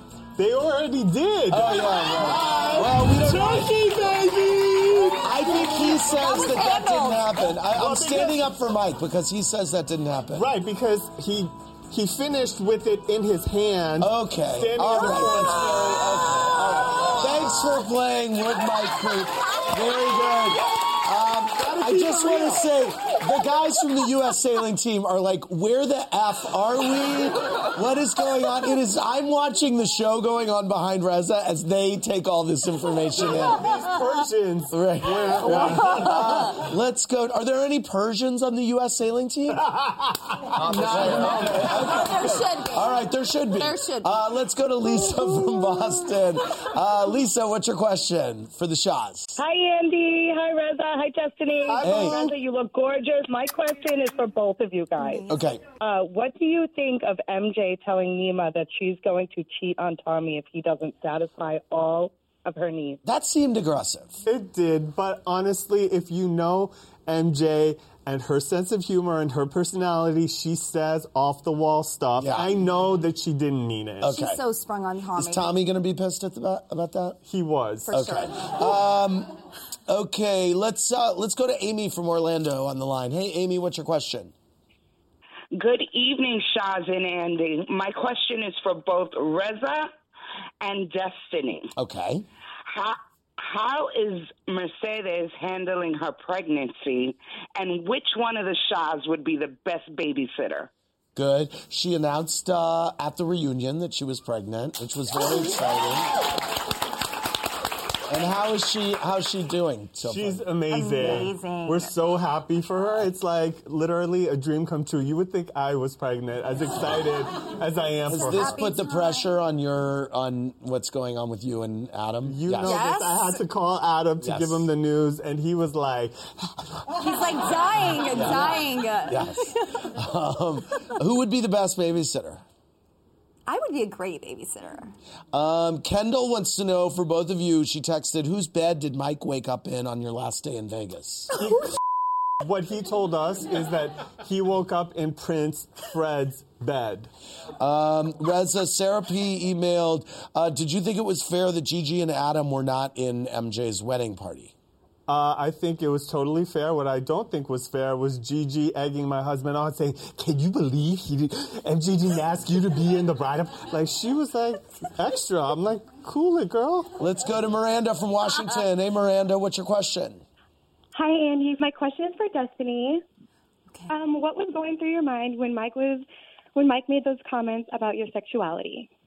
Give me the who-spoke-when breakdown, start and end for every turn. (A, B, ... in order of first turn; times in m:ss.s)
0:00.4-0:05.3 A
0:01.5-0:03.8 B
0:05.2-0:10.5 B
0:05.3-0:07.5 C
0:07.7-0:08.4 A
0:10.3-0:15.7 A
0:14.0-0:33.6 B
0:21.6-0:22.6 A
0:33.2-0:36.6 A
0:34.7-0:39.6 B
0:35.5-0:36.6 C
0:40.5-0:41.7 A
0:40.5-0:49.4 B
0:40.7-0:43.1 C
0:43.6-0:44.1 C
0:49.4-0:55.3 D
0:51.7-0:52.4 A
0:51.8-0:52.2 B
0:55.0-0:55.3 C
0:55.3-0:55.6 B
0:55.8-1:03.0 D
1:03.0-1:04.2 B
1:04.3-1:14.2 A
1:12.2-1:12.6 B
1:14.0-1:14.4 B
1:14.0-1:15.5 C
1:15.2-1:17.2 B
1:17.2-1:18.0 A
1:17.9-1:18.7 C
1:17.9-1:19.4 B
1:19.9-1:24.3 B
1:25.6-1:29.9 E
1:30.6-1:31.7 E
1:31.8-1:32.2 B
1:32.7-1:40.7 E
1:41.2-1:46.2 B
1:48.1-1:50.5 B
1:50.0-1:58.6 A
1:50.7-1:52.0 C
1:51.0-1:51.3 B
1:58.1-2:02.9 B
1:58.1-1:59.3 C
2:02.2-2:07.0 A
2:02.6-2:03.4 C
2:04.2-2:04.7 B
2:07.0-2:09.9 C
2:08.1-2:12.4 B
2:13.5-2:15.0 C
2:15.3-2:21.3 B
2:21.4-2:21.6 A
2:22.4-2:27.1 A
2:27.6-2:34.5 B
2:35.1-2:46.9 A
2:47.0-2:50.2 B
2:50.9-2:53.0 F
2:53.9-2:58.9 F